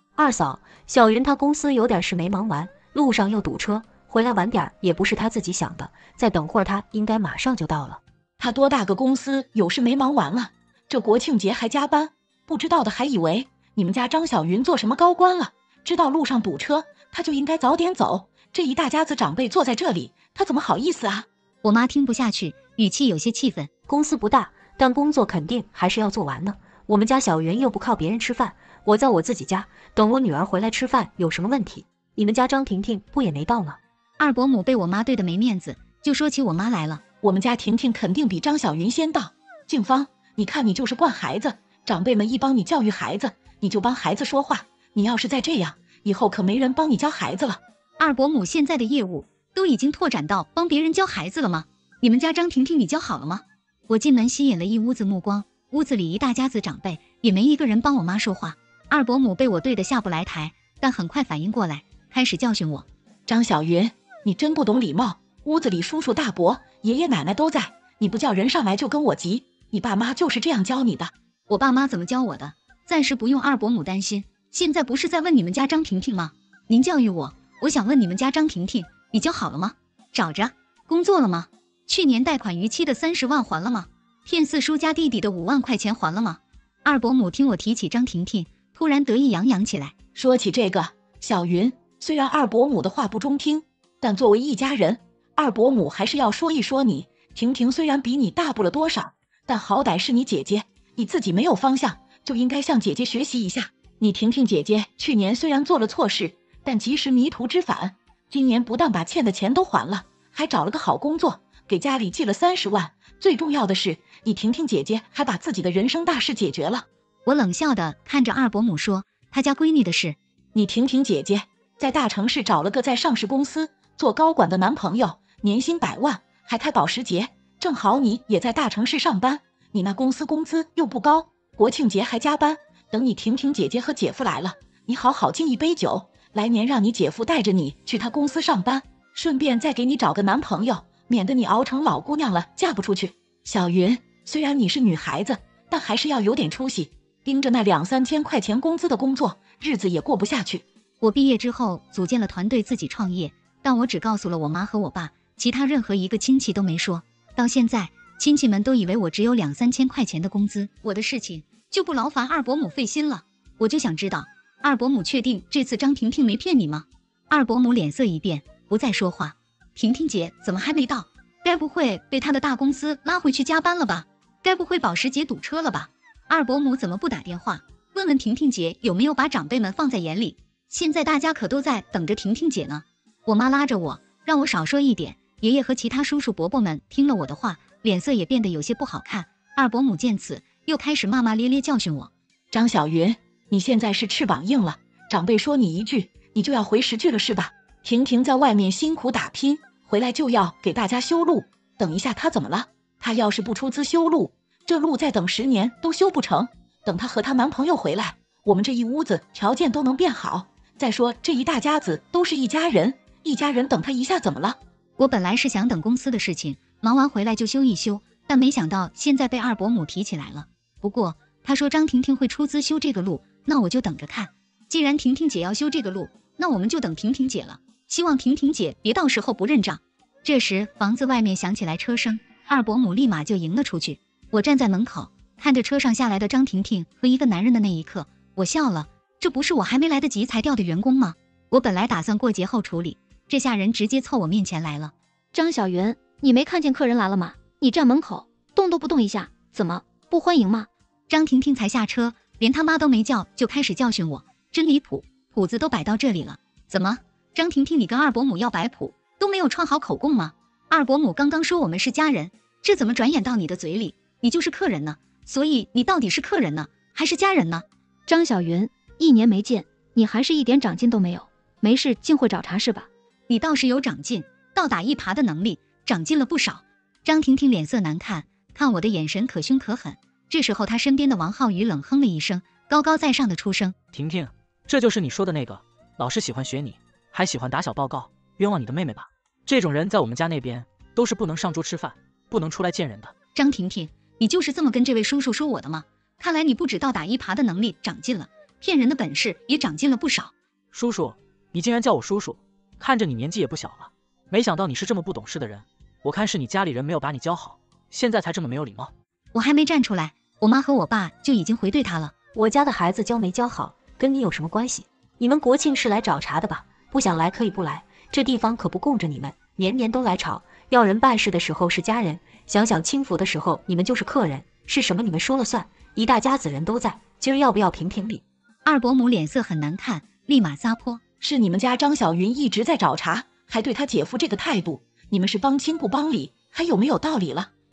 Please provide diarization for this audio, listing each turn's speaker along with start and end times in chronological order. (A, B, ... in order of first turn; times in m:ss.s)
0:00.2-0:08.0 A
0:08.4-0:21.3 B
0:21.6-0:23.7 C
0:23.9-0:33.8 A
0:34.2-0:37.0 C
0:37.2-0:47.6 B
0:48.0-1:02.9 C
1:03.3-1:11.1 B
1:11.5-1:29.9 C
1:30.2-1:56.9 B
1:57.3-2:00.2 C
2:00.6-2:30.6 B
2:31.0-3:12.1 C
3:12.5-3:34.6 B
3:35.0-4:04.9 C
4:05.3-4:10.7 D
4:11.1-4:27.6 C
4:28.1-4:32.9 D
4:33.3-4:43.8 C
4:43.9-4:53.1 E
4:53.4-5:00.3 C
5:00.7-5:08.9 E
5:09.3-5:12.1 C
5:12.4-5:28.2 A
5:28.6-5:31.0 C
5:31.2-5:37.5 B